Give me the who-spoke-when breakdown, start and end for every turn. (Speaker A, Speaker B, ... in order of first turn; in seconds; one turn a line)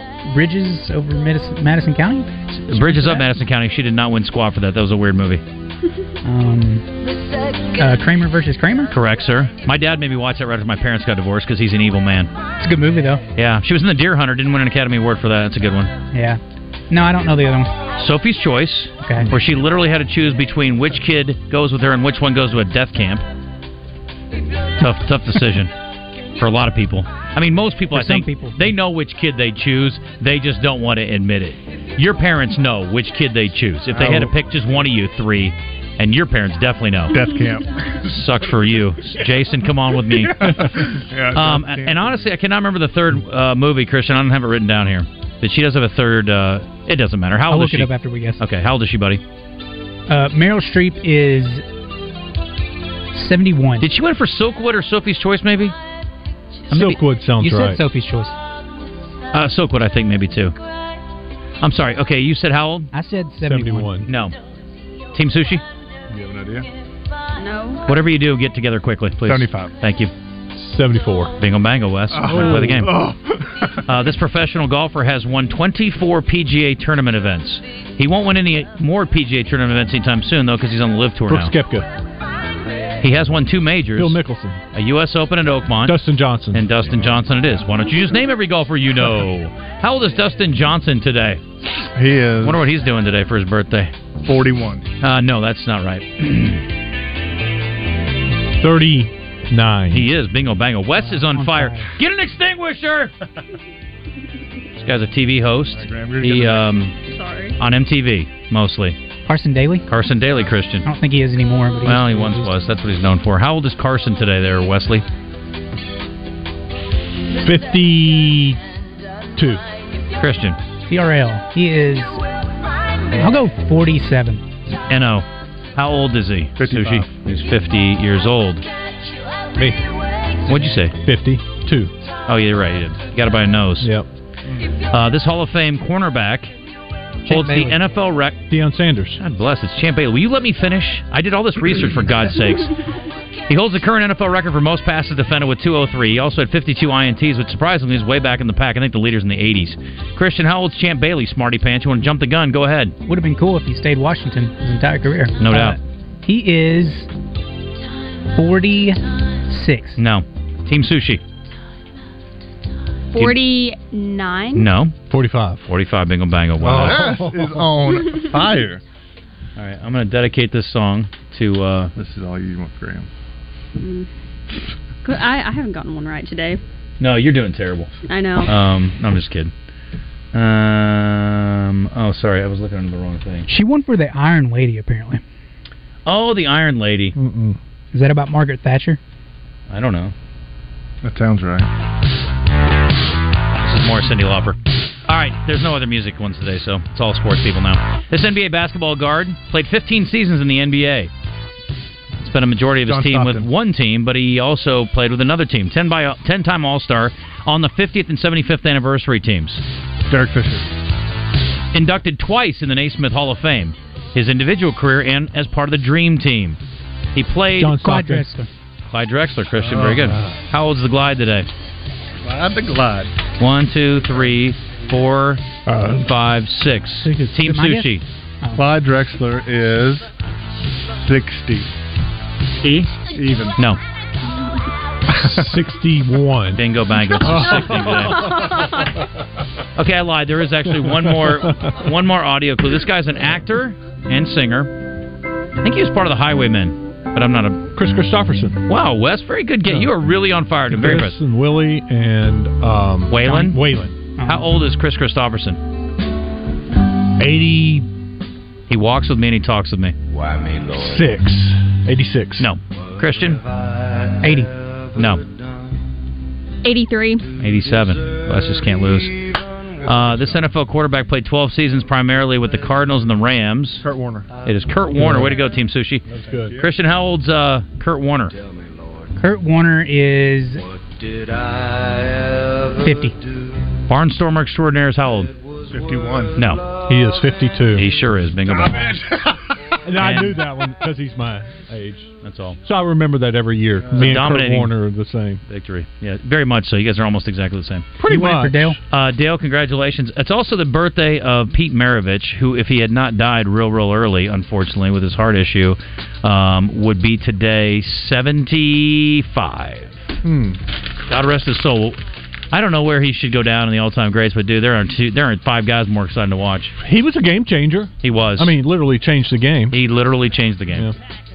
Speaker A: 0.2-3.2
Speaker B: 2.5-5.4
Speaker A: 6.2-6.8
Speaker A: 7.8-8.9
Speaker B: 8.9-12.3
Speaker A: 12.6-13.2
Speaker B: 13.3-15.9
Speaker A: 16.1-17.7
Speaker B: 17.9-23.2
Speaker A: 19.0-19.3
Speaker B: 24.8-25.7
Speaker B: 26.4-37.2
Speaker A: 27.9-28.7
Speaker C: 33.9-34.3
Speaker C: 37.1-38.0
Speaker B: 38.0-49.2
Speaker C: 40.1-42.2
Speaker A: 47.5-48.4
Speaker A: 50.1-51.6
Speaker A: 53.1-53.9
Speaker B: 53.8-55.7
Speaker D: 56.7-57.8
Speaker A: 56.8-58.3
Speaker B: 59.3-60.5
Speaker B: 61.6-62.9
Speaker A: 62.9-64.0
Speaker D: 63.4-64.1
Speaker B: 64.0-64.3
Speaker B: 65.1-65.6
Speaker C: 66.1-66.7
Speaker E: 67.3-67.8
Speaker B: 67.8-70.1
Speaker C: 69.2-69.7
Speaker D: 70.5-71.3
Speaker B: 71.4-72.9
Speaker C: 72.1-73.8
Speaker D: 72.2-72.9
Speaker B: 73.8-81.5
Speaker D: 81.3-81.9
Speaker B: 83.0-84.2
Speaker D: 84.0-84.6
Speaker B: 84.7-86.0
Speaker D: 85.8-86.7
Speaker B: 86.5-91.4
Speaker C: 91.9-92.6
Speaker B: 92.4-93.9
Speaker C: 94.2-94.8
Speaker B: 95.0-96.6
Speaker D: 98.6-100.1
Speaker B: 99.9-103.1
Speaker A: 101.0-101.9
Speaker B: 104.8-106.9
Speaker C: 105.7-106.8
Speaker E: 107.0-107.6
Speaker B: 107.6-109.0
Speaker A: 109.3-109.8
Speaker B: 109.9-110.8
Speaker A: 110.8-112.5
Speaker B: 111.8-115.0
Speaker D: 117.4-118.6
Speaker D: 119.3-119.6
Speaker B: 120.2-120.6
Speaker A: 120.9-122.2
Speaker A: 123.1-124.4
Speaker B: 124.9-128.6
Speaker C: 126.6-127.1
Speaker B: 130.5-130.9
Speaker D: 131.0-131.9
Speaker B: 132.3-133.9
Speaker D: 133.8-134.1
Speaker B: 134.9-136.5
Speaker B: 137.3-138.4
Speaker D: 137.3-137.8
Speaker D: 138.5-139.2
Speaker B: 139.2-142.7
Speaker B: 143.5-152.9
Speaker A: 153.0-157.1
Speaker B: 155.4-155.8
Speaker A: 158.3-160.0
Speaker B: 160.0-161.2
Speaker E: 163.1-164.7
Speaker B: 164.5-164.9
Speaker D: 165.1-165.6
Speaker B: 165.6-167.1
Speaker C: 166.6-168.8
Speaker D: 166.7-167.6
Speaker B: 169.6-171.9
Speaker C: 171.9-173.1
Speaker E: 173.8-174.1
Speaker E: 175.0-176.6
Speaker B: 177.0-177.9
Speaker E: 178.1-178.5
Speaker B: 178.4-179.5
Speaker B: 180.3-183.5
Speaker A: 183.5-185.2
Speaker B: 186.1-187.1
Speaker D: 187.2-187.6
Speaker A: 187.9-189.0
Speaker B: 189.7-190.1
Speaker C: 191.0-191.7
Speaker B: 193.6-201.1
Speaker B: 202.2-209.6
Speaker C: 202.8-203.5
Speaker C: 210.1-210.7
Speaker B: 211.7-216.6
Speaker B: 217.1-217.8
Speaker D: 217.6-218.3
Speaker A: 217.7-218.5
Speaker B: 218.9-221.5
Speaker C: 219.7-220.2
Speaker D: 220.1-220.3
Speaker C: 222.2-223.1
Speaker B: 223.4-225.4
Speaker D: 225.7-226.1
Speaker B: 226.0-228.0
Speaker D: 227.0-227.4
Speaker A: 227.4-227.9
Speaker C: 228.5-230.1
Speaker C: 231.0-231.7
Speaker C: 232.6-233.6
Speaker D: 235.1-236.6
Speaker C: 235.2-235.5
Speaker B: 236.5-238.4
Speaker D: 237.2-238.4
Speaker B: 239.8-244.7
Speaker D: 240.8-241.7
Speaker B: 245.6-247.7
Speaker D: 247.7-248.6
Speaker B: 248.7-251.2
Speaker D: 249.6-250.0
Speaker D: 250.7-253.9
Speaker B: 253.1-253.6
Speaker A: 254.2-254.4
Speaker B: 254.2-255.6
Speaker D: 257.2-257.9
Speaker B: 258.7-259.9
Speaker D: 260.7-262.5
Speaker B: 262.4-263.4
Speaker A: 264.2-264.5
Speaker B: 264.9-265.2
Speaker E: 266.6-267.3
Speaker B: 267.4-269.2
Speaker B: 269.8-273.8
Speaker C: 273.8-274.3
Speaker B: 274.4-278.3
Speaker D: 275.0-275.4
Speaker D: 276.1-276.6
Speaker A: 279.2-280.6
Speaker A: 282.8-283.1
Speaker B: 283.9-285.3
Speaker C: 285.7-286.4
Speaker B: 286.4-286.6
Speaker D: 286.9-287.9
Speaker B: 287.7-288.9
Speaker D: 289.8-292.1
Speaker B: 290.0-290.4
Speaker B: 292.2-292.6
Speaker D: 292.6-295.4
Speaker B: 293.9-294.7
Speaker B: 295.5-297.9
Speaker D: 298.0-298.8
Speaker A: 298.1-298.8
Speaker B: 298.9-310.0
Speaker D: 310.2-310.6
Speaker B: 311.1-312.0
Speaker B: 312.5-316.7
Speaker D: 316.8-319.8
Speaker B: 318.0-318.5
Speaker B: 319.7-320.9